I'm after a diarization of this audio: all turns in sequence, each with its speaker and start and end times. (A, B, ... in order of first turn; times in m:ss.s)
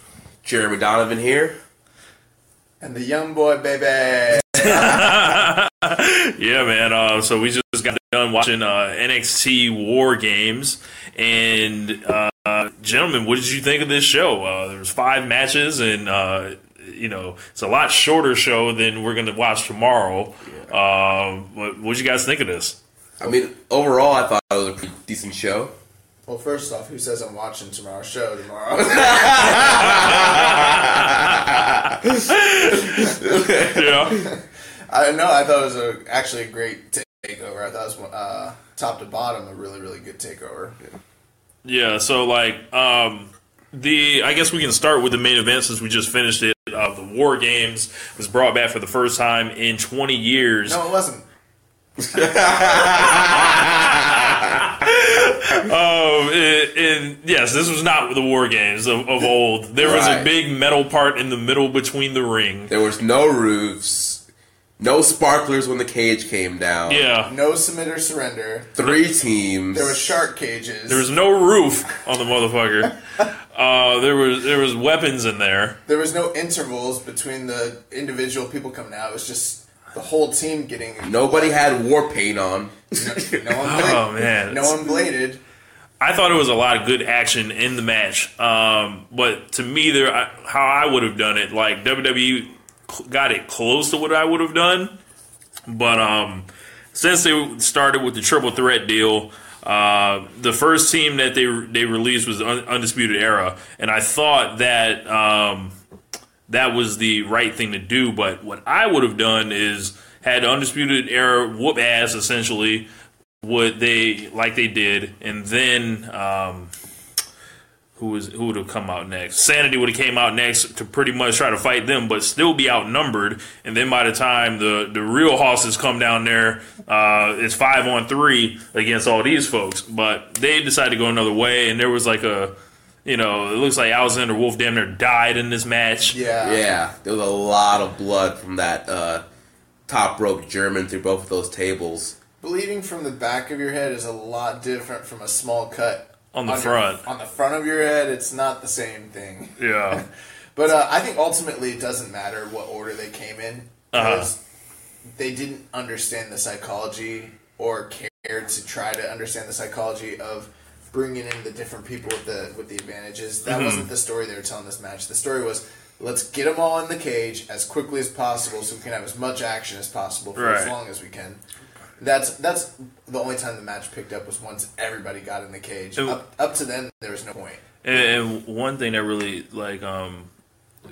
0:00.4-0:01.6 A
0:02.8-0:05.4 B
0:04.5-0:22.8 C
0:23.2-0:25.7 A
0:26.3-0:30.6 B
0:28.9-0:34.2 A
0:29.9-0:31.4 C
0:31.9-0:34.2 C
0:34.0-0:34.4 B
0:34.9-0:40.8 B
0:41.6-0:50.8 C
0:50.6-0:51.2 B
0:52.1-0:54.4 A
0:53.1-1:02.7 C
0:59.8-1:00.3 A
1:02.7-1:04.2 A
1:04.8-1:07.1 A
1:06.9-1:07.3 C
1:07.2-1:08.7 B
1:08.7-1:10.0 A
1:09.7-1:11.1 B
1:10.9-1:12.9 C
1:13.5-1:15.8 C
1:15.9-1:21.6 B
1:21.0-1:23.4 A
1:23.0-1:25.4 B
1:23.6-1:24.8 C
1:26.0-1:34.9 C
1:35.7-1:45.7 C
1:46.5-1:52.9 C
1:53.4-1:56.7 C
1:58.0-2:12.5 C
2:13.0-2:16.2 C
2:16.1-2:16.6 B
2:16.4-2:19.2 A
2:19.9-2:22.2 A
2:22.4-2:30.0 B
2:26.3-2:27.0 C
2:29.6-2:30.0 C
2:30.6-2:34.4 B
2:33.9-2:34.3 C
2:35.2-2:51.4 B
2:43.4-2:43.9 C
2:50.4-2:50.7 C
2:52.0-2:57.6 B
2:57.8-3:00.3 C